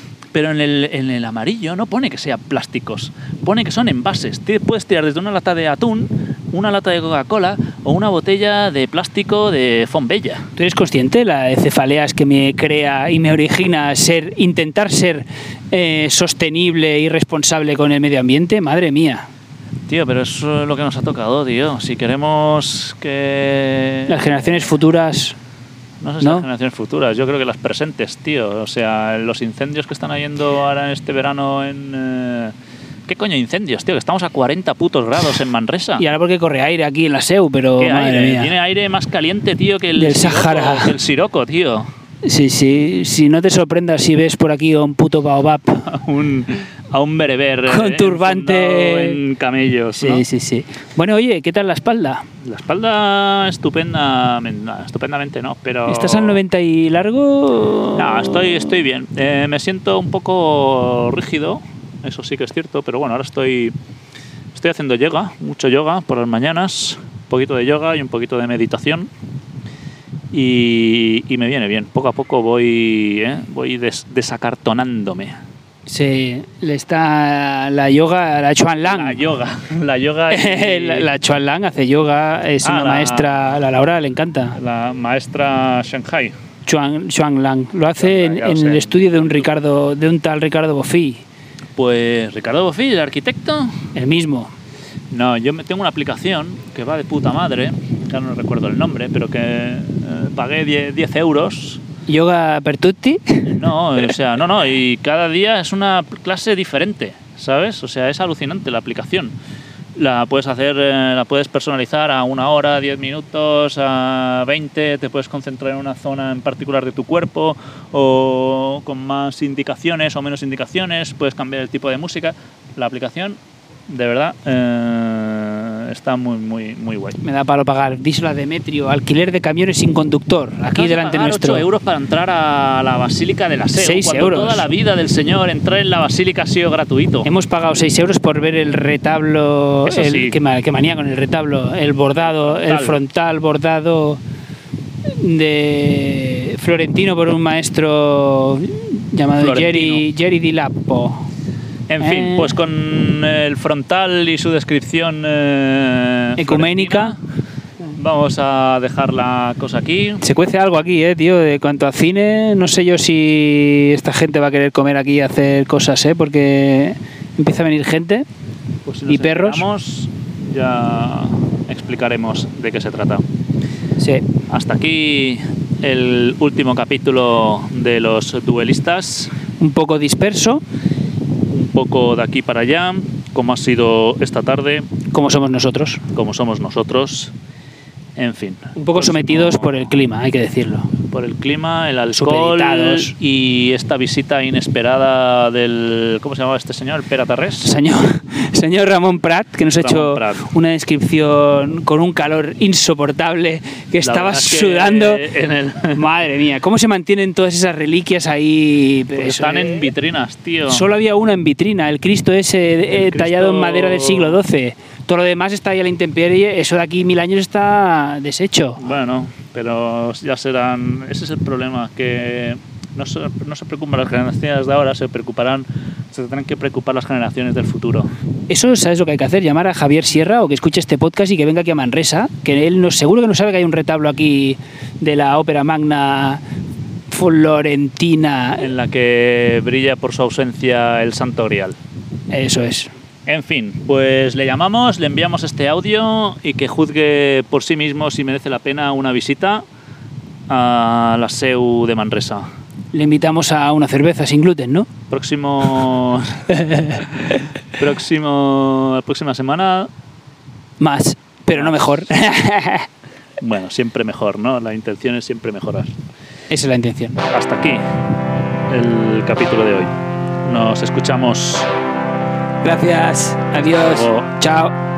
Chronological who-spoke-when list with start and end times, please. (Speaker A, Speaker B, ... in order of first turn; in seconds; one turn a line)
Speaker A: 0.3-10.5
Speaker B: 10.6-19.3
Speaker A: 19.9-24.7
Speaker B: 24.1-25.4
Speaker A: 26.0-32.5
Speaker B: 26.2-26.4
Speaker A: 33.1-36.0
Speaker B: 36.0-38.5
Speaker A: 37.8-41.9
Speaker B: 40.0-41.0
Speaker B: 42.2-45.9
Speaker A: 45.9-50.2
Speaker B: 47.7-49.2
Speaker B: 50.0-52.3
Speaker A: 52.4-56.4
Speaker B: 55.9-58.3
Speaker A: 57.9-63.7
Speaker A: 64.5-69.1
Speaker A: 70.3-75.4
Speaker B: 75.9-79.2
Speaker A: 78.8-81.1
Speaker B: 80.3-84.6
Speaker A: 82.6-83.4
Speaker A: 84.5-86.3
Speaker B: 86.6-91.2
Speaker A: 88.0-89.5
Speaker A: 91.8-93.8
Speaker B: 93.9-94.5
Speaker A: 95.1-101.8
Speaker B: 102.1-103.5
Speaker A: 103.5-109.3
Speaker A: 109.9-127.2
Speaker B: 127.2-131.7
Speaker A: 130.7-137.3
Speaker B: 133.7-134.6
Speaker B: 137.2-144.2
Speaker A: 139.9-140.4
Speaker A: 142.2-143.0
Speaker B: 145.2-151.3
Speaker A: 149.4-150.1
Speaker A: 151.9-157.2
Speaker B: 152.0-152.5
Speaker B: 156.4-157.2
Speaker A: 157.9-160.2
Speaker B: 160.2-168.2
Speaker A: 168.9-173.2
Speaker B: 169.1-169.7
Speaker B: 174.0-174.2
Speaker A: 174.5-179.3
Speaker B: 179.6-180.6
Speaker A: 181.5-184.9
Speaker B: 185.1-186.1
Speaker A: 186.1-187.3
Speaker A: 188.2-189.9
Speaker B: 188.8-190.9
Speaker A: 191.0-197.7
Speaker B: 192.1-193.1
Speaker B: 197.6-205.2
Speaker A: 199.8-200.5
Speaker A: 204.0-206.1
Speaker B: 205.9-209.9
Speaker A: 209.2-210.9
Speaker B: 210.7-218.9
Speaker A: 212.9-214.4
Speaker A: 218.8-228.1
Speaker B: 228.5-236.4
Speaker B: 237.1-238.7
Speaker A: 238.6-241.8
Speaker B: 242.3-242.9
Speaker A: 243.2-249.6
Speaker A: 250.5-252.5
Speaker B: 252.9-254.9
Speaker A: 255.1-259.9
Speaker B: 256.6-257.1
Speaker B: 260.8-262.9
Speaker A: 261.5-261.9
Speaker A: 263.4-265.9
Speaker B: 266.5-267.2
Speaker A: 267.3-267.9
Speaker A: 268.7-271.7
Speaker B: 272.6-274.7
Speaker A: 273.8-274.3